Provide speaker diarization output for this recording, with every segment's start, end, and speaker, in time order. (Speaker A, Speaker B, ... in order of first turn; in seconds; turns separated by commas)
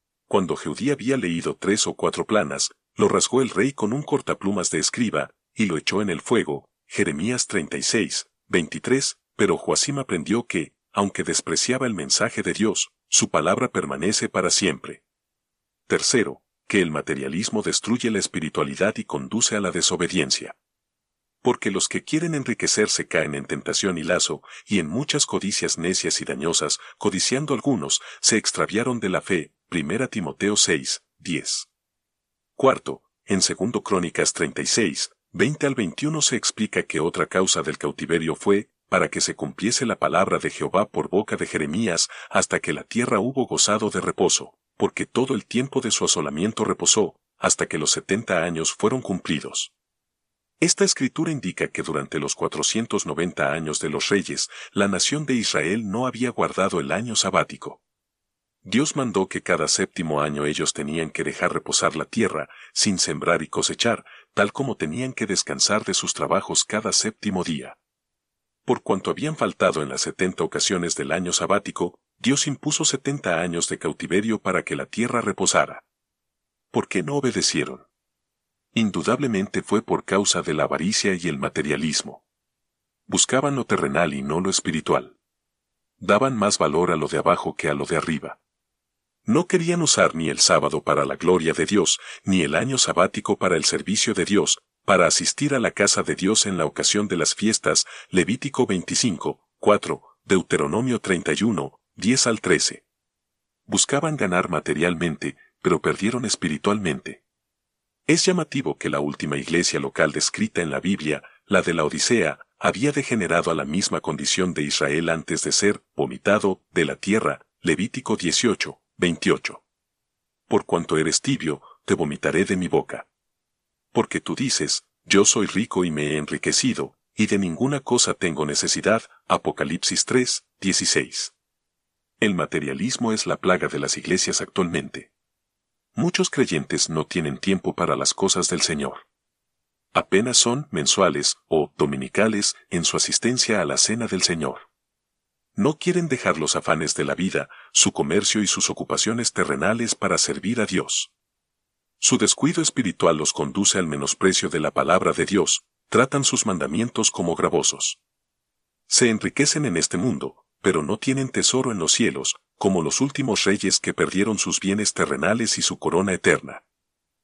Speaker A: 0.3-15.0, Speaker A: 15.9-20.5, Speaker A: 21.4-31.7, Speaker A: 32.5-49.7, Speaker A: 50.6-57.8, Speaker A: 58.6-67.8, Speaker A: 68.7-75.8, Speaker A: 76.7-77.9, Speaker A: 78.7-82.2, Speaker A: 83.1-85.2, Speaker A: 86.0-88.4, Speaker A: 89.2-102.8, Speaker A: 103.7-107.2, Speaker A: 108.1-119.6, Speaker A: 120.5-123.1, Speaker A: 123.9-131.3, Speaker A: 132.2-135.1, Speaker A: 135.9-139.1, Speaker A: 139.9-144.7, Speaker A: 145.6-151.1, Speaker A: 152.0-158.0, Speaker A: 158.9-166.6